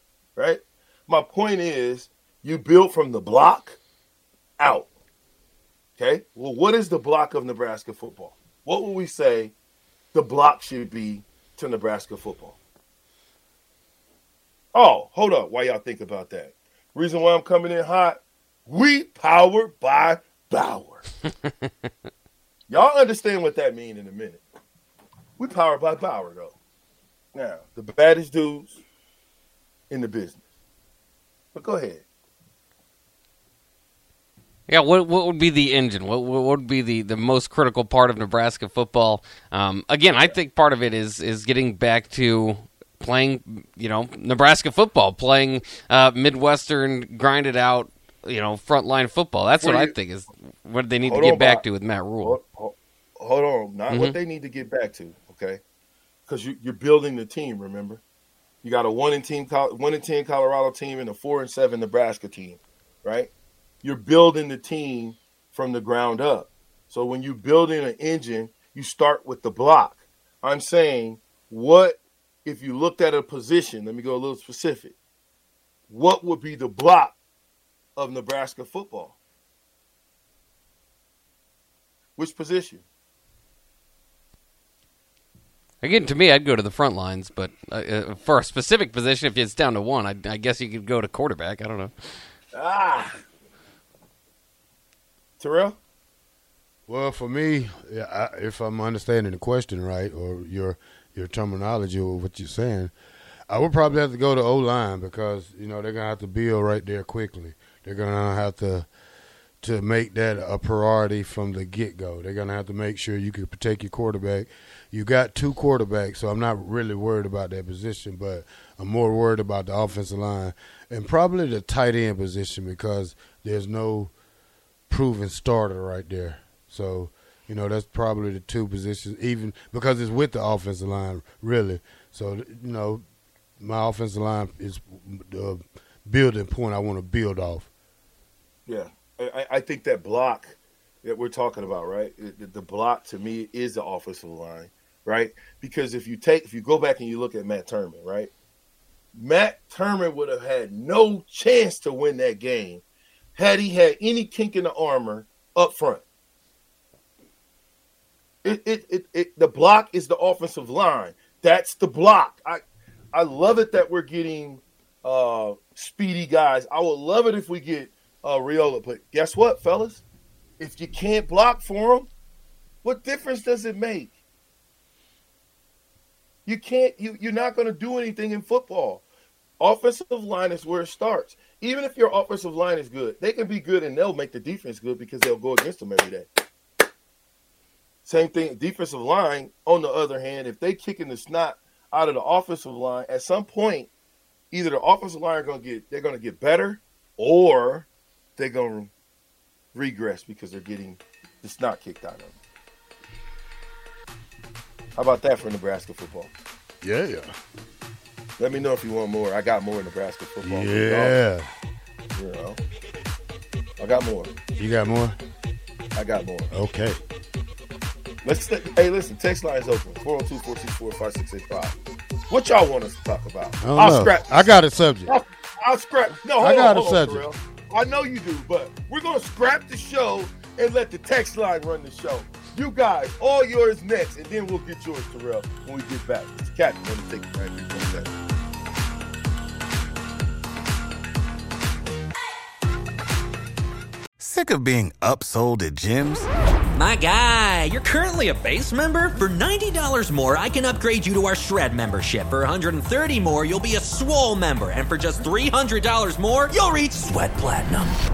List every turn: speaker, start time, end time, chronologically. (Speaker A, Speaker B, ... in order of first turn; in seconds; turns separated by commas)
Speaker A: 0.4-3.8, Speaker A: 4.6-4.9, Speaker A: 6.0-9.5, Speaker A: 10.1-12.6, Speaker A: 14.7-21.1, Speaker A: 22.7-24.4, Speaker A: 25.4-26.6, Speaker A: 27.3-28.8, Speaker A: 29.9-30.4, Speaker A: 31.5-32.0, Speaker B: 34.7-52.4, Speaker A: 49.6-50.0, Speaker A: 51.0-51.6, Speaker A: 52.2-55.6, Speaker B: 53.9-54.2, Speaker A: 56.3-58.0, Speaker A: 58.6-63.3, Speaker A: 63.8-75.0, Speaker A: 75.9-77.2, Speaker A: 78.0-79.2, Speaker A: 82.2-82.8, Speaker B: 85.8-91.9, Speaker A: 92.5-93.2, Speaker A: 95.4-95.8, Speaker C: 96.9-102.9, Speaker C: 103.5-108.9, Speaker C: 109.6-124.1, Speaker C: 124.9-133.0, Speaker C: 133.6-137.7, Speaker A: 138.7-148.3, Speaker A: 149.1-152.8, Speaker A: 153.4-156.0, Speaker A: 158.4-162.6, Speaker A: 163.1-170.0, Speaker A: 170.6-172.1, Speaker A: 172.8-174.2, Speaker A: 176.5-179.0, Speaker A: 179.6-186.3, Speaker A: 188.1-193.9, Speaker A: 194.5-198.9, Speaker A: 199.7-202.4, Speaker A: 204.9-206.3, Speaker C: 206.8-207.3, Speaker A: 208.4-211.2, Speaker C: 210.4-211.5, Speaker A: 212.2-212.6, Speaker A: 213.8-214.3, Speaker C: 214.6-215.2, Speaker A: 215.9-216.5, Speaker C: 216.5-217.0, Speaker A: 218.2-221.8, Speaker A: 222.3-224.5, Speaker C: 223.6-225.1, Speaker A: 225.1-238.1, Speaker C: 226.4-227.3, Speaker D: 244.2-246.3, Speaker E: 246.7-258.0